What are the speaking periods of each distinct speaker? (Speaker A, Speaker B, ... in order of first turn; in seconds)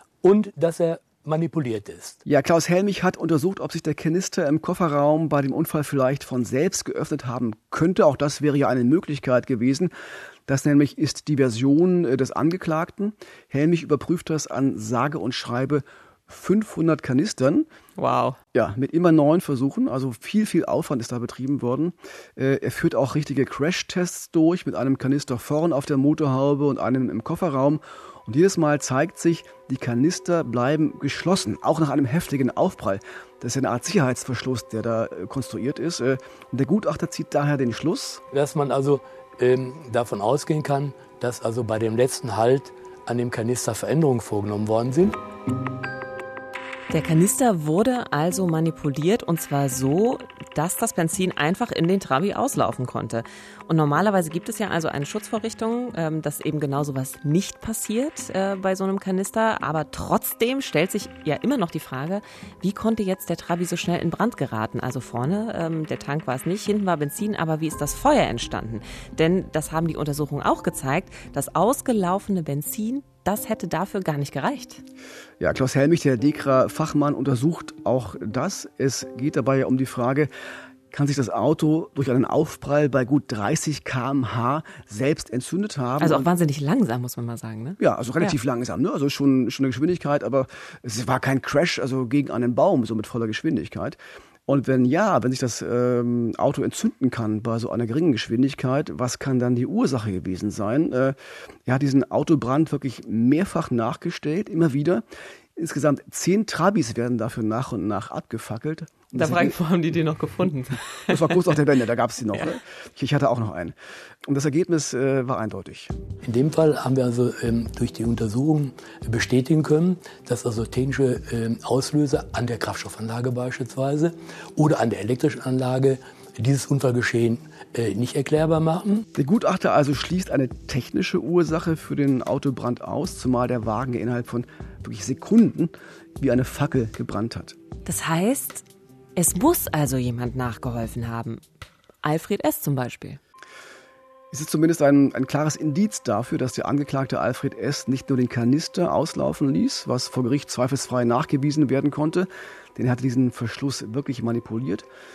Speaker A: 0.2-2.2, 38.3-45.2, 116.2-129.0
Speaker B: 2.2-9.9, 10.5-17.7, 18.5-38.2, 75.4-80.3, 80.9-86.3, 87.8-105.0, 105.5-109.5, 111.1-115.9, 129.1-137.6, 144.3-154.9
Speaker C: 18.0-18.4, 46.9-74.8, 86.0-88.4, 109.1-111.4, 137.8-141.4, 142.0-143.2